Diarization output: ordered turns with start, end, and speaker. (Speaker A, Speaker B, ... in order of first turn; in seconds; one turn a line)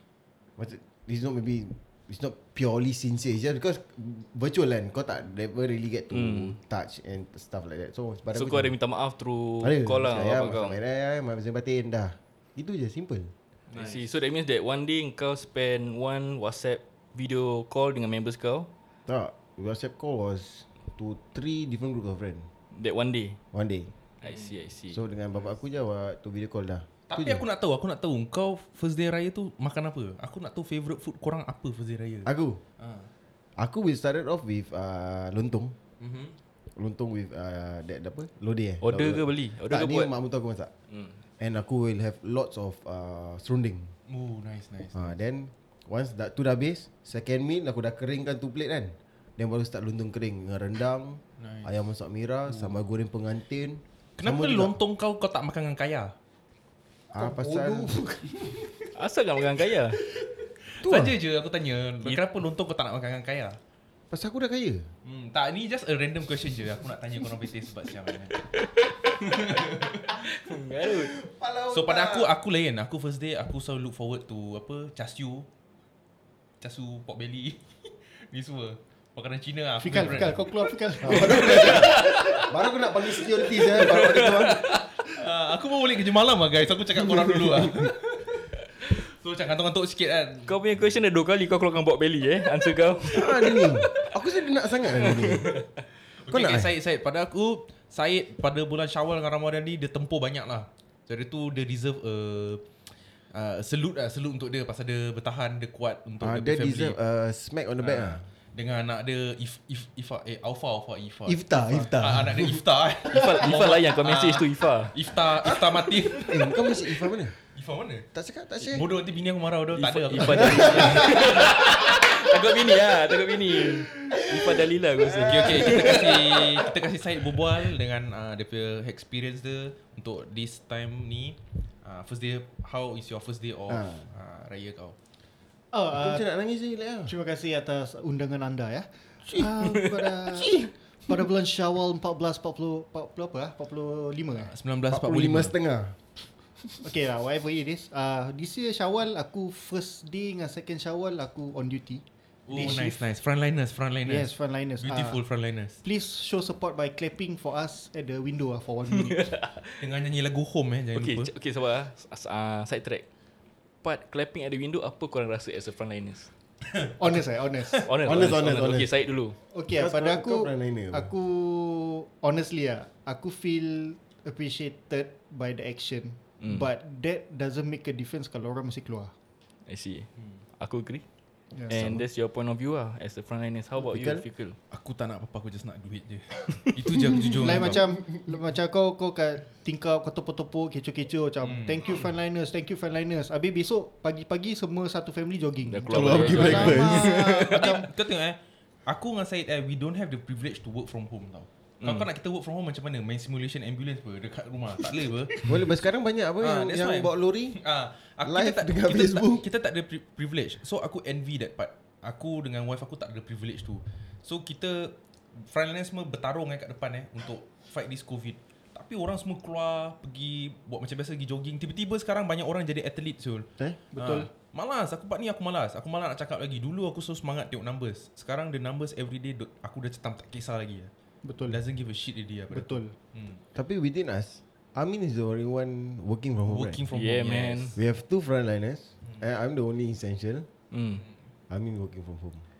Speaker A: 0.6-8.8
Speaker B: 6.1-6.6
Speaker B: 8.3-10.8
Speaker A: 9.6-13.3
Speaker C: 13.7-14.1
Speaker B: 13.8-18.7
Speaker A: 19.1-22.5
Speaker B: 22.7-23.4
Speaker A: 23.5-23.9
Speaker B: 24.2-25.0
Speaker C: 24.2-24.5
Speaker A: 24.9-27.4
Speaker C: 27.1-33.1
Speaker A: 32.2-32.6
Speaker A: 33.6-35.8
Speaker C: 36.0-36.4
Speaker A: 36.8-40.7
Speaker B: 38.8-40.1
Speaker A: 41.4-43.9
Speaker C: 44.1-45.1
Speaker A: 44.9-54.8
Speaker C: 51.4-51.7
Speaker C: 52.5-52.8
Speaker C: 54.2-56.1
Speaker D: 57.1-58.3
Speaker A: 57.1-58.9
Speaker B: 59.0-60.0
Speaker C: 60.7-63.6
Speaker A: 60.8-61.2
Speaker A: 64.1-64.9
Speaker C: 65.0-68.5
Speaker C: 69.2-70.2
Speaker B: 70.0-71.2
Speaker A: 70.8-72.3
Speaker C: 71.7-75.5
Speaker C: 76.6-82.2
Speaker D: 79.8-81.7
Speaker A: 81.0-84.6
Speaker B: 81.6-82.4
Speaker B: 83.5-84.8
Speaker C: 85.0-90.5
Speaker A: 87.0-87.8
Speaker B: 90.5-94.0
Speaker A: 93.0-95.6
Speaker B: 94.9-95.6
Speaker C: 96.2-102.7
Speaker A: 96.3-96.7
Speaker C: 103.3-107.0
Speaker A: 106.2-108.2
Speaker C: 107.8-116.7
Speaker A: 111.3-112.6
Speaker B: 113.1-115.0
Speaker A: 115.4-117.3
Speaker C: 117.5-118.1
Speaker A: 118.1-118.9
Speaker C: 118.7-121.9
Speaker B: 119.7-126.7
Speaker A: 120.4-121.4
Speaker A: 124.3-126.0
Speaker C: 125.1-134.9
Speaker A: 133.7-134.1
Speaker D: 135.7-136.2
Speaker A: 135.9-137.1
Speaker D: 137.1-144.5
Speaker A: 140.3-140.7
Speaker C: 144.3-145.5
Speaker A: 144.9-146.0
Speaker D: 146.8-153.0
Speaker C: 152.5-155.8
Speaker D: 154.1-155.2
Speaker D: 155.8-159.3
Speaker B: 158.9-159.9
Speaker C: 159.8-161.3
Speaker B: 161.0-163.1
Speaker B: 163.8-166.3
Speaker D: 167.0-167.8
Speaker B: 167.8-169.4
Speaker A: 168.0-169.0
Speaker D: 169.5-179.1
Speaker A: 169.7-171.1
Speaker B: 176.4-176.7
Speaker B: 179.7-181.0
Speaker D: 181.5-182.0
Speaker B: 181.7-184.6
Speaker A: 183.8-184.2
Speaker C: 184.7-187.8
Speaker D: 187.4-197.9
Speaker C: 191.4-191.9
Speaker B: 195.7-197.7
Speaker A: 195.9-197.2
Speaker C: 195.9-205.5
Speaker B: 201.8-202.1
Speaker A: 205.4-207.6
Speaker C: 206.4-230.9
Speaker A: 208.2-209.5
Speaker D: 223.9-224.3
Speaker D: 231.2-231.6
Speaker C: 231.5-233.4
Speaker D: 232.5-232.9
Speaker A: 233.6-236.8
Speaker C: 236.5-237.8
Speaker B: 236.9-237.8
Speaker A: 237.8-240.5
Speaker B: 240.7-241.1
Speaker A: 241.5-242.4